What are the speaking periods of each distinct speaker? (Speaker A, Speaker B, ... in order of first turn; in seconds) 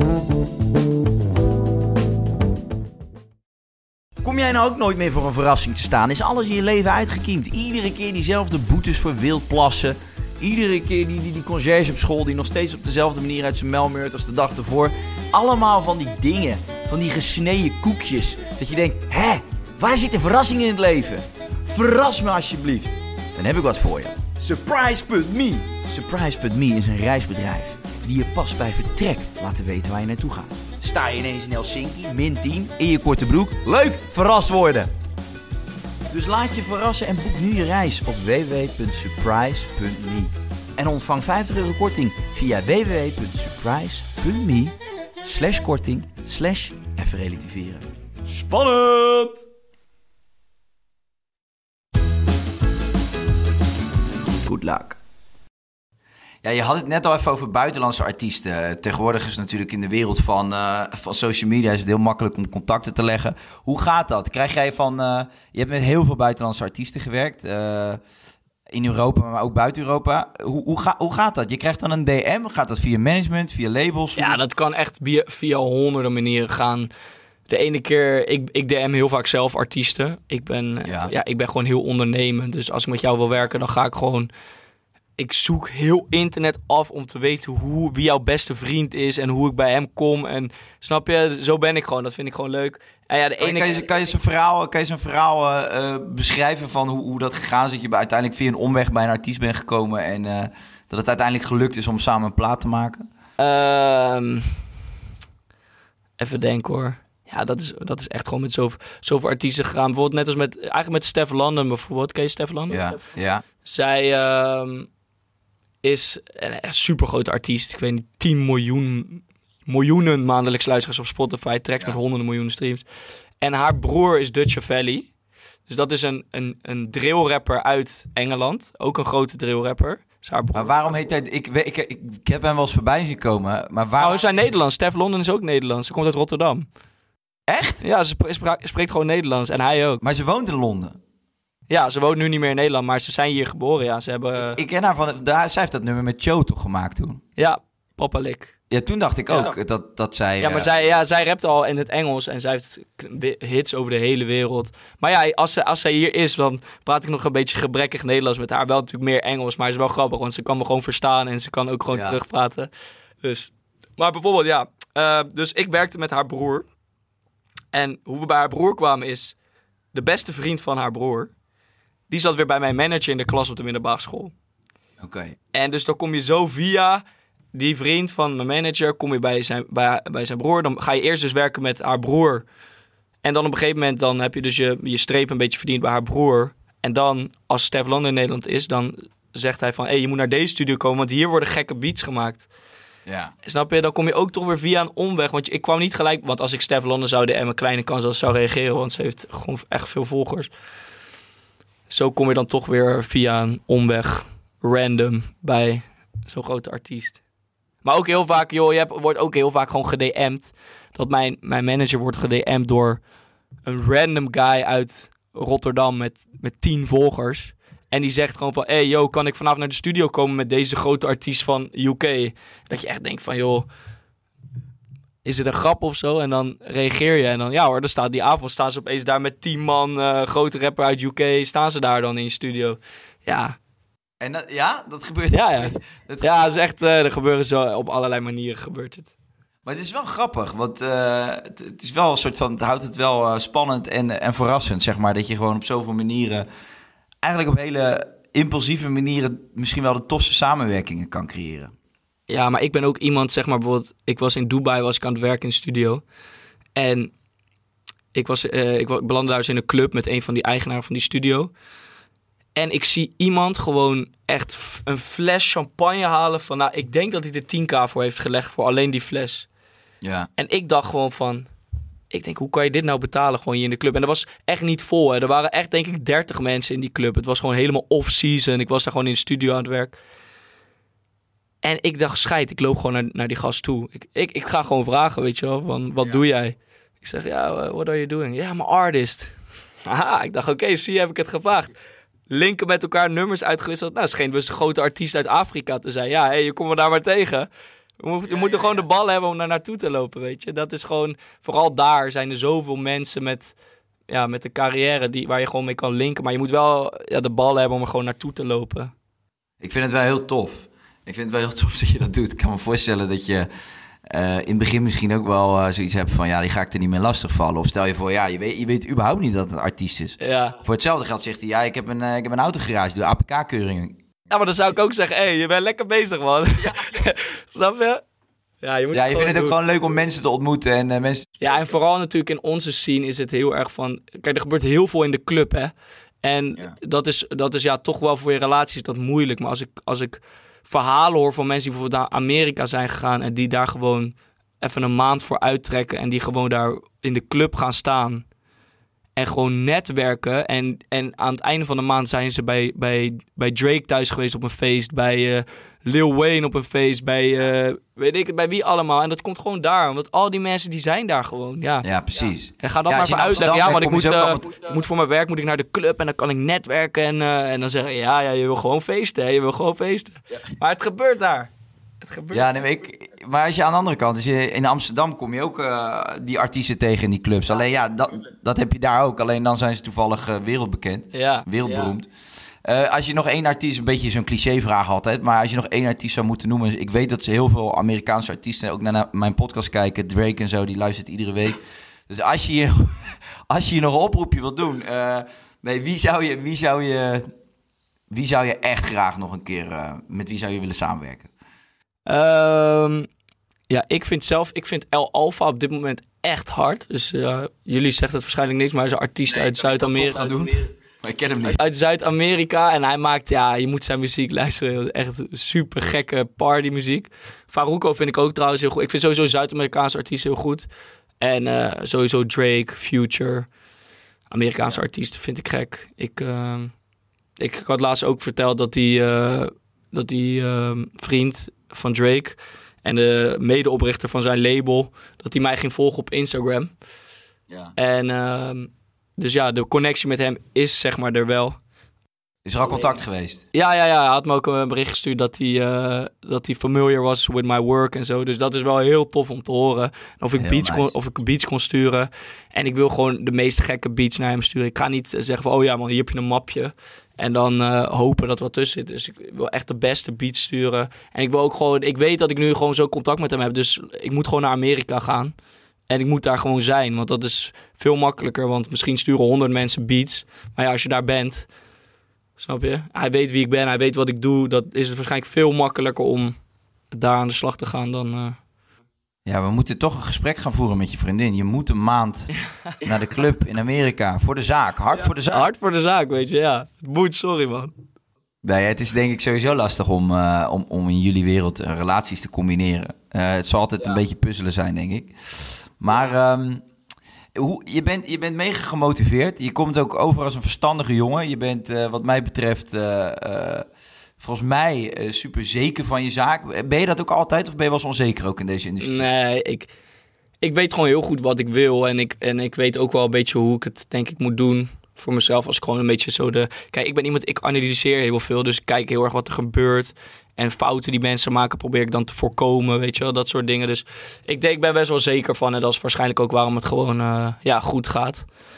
Speaker A: 4.2-34.9, 36.1-49.5, 54.4-55.0, 56.4-68.0, 68.7-74.4, 80.8-81.1, 93.4-103.1, 112.7-113.4, 130.5-134.3, 137.5-137.8, 140.0-141.0, 144.4-147.2, 148.7-150.7, 161.9-162.2, 175.0-175.3, 193.1-193.3, 234.2-236.6, 239.6-246.5, 247.2-251.7, 270.0-270.3, 298.3-298.8, 309.6-313.5, 314.1-324.0, 326.6-327.0, 328.9-331.3, 361.8-364.7, 372.3-382.1, 382.6-397.3, 398.1-401.3, 409.3-411.6, 442.4-443.4, 450.4-450.9, 479.2-485.5, 488.4-496.6, 497.4-503.6, 504.2-509.0
Speaker B: 74.2-76.9, 77.5-84.3, 85.2-93.9, 103.4-104.6, 106.2-112.8, 113.6-114.9, 115.8-122.8, 123.4-125.1, 125.7-130.7, 134.0-136.7, 137.8-140.0, 141.7-144.6, 147.4-148.5, 149.3-149.5, 150.4-162.7, 163.2-166.7, 167.7-169.3, 169.9-171.3, 172.1-174.3, 175.5-182.4, 183.2-192.5, 193.4-200.5, 201.9-207.2, 207.8-213.0, 213.7-223.7, 225.2-233.6, 235.3-239.1, 252.3-256.0, 256.7-257.1, 258.1-261.5, 262.6-269.5, 270.4-271.5, 272.1-280.0, 281.6-289.3, 289.8-291.7, 292.3-297.5, 298.0-303.5, 304.1-308.9, 320.2-320.6, 324.3-328.0, 328.6-329.6, 331.4-348.2, 349.1-372.5, 381.1-381.9, 402.1-403.1, 403.7-410.4, 411.4-420.7, 421.2-423.5, 424.3-426.7, 427.4-436.7, 437.8-441.6, 442.7-442.9, 443.5-465.3, 465.9-471.5, 472.4-476.3, 476.9-478.4, 485.0-487.7, 508.8-509.7, 510.4-528.2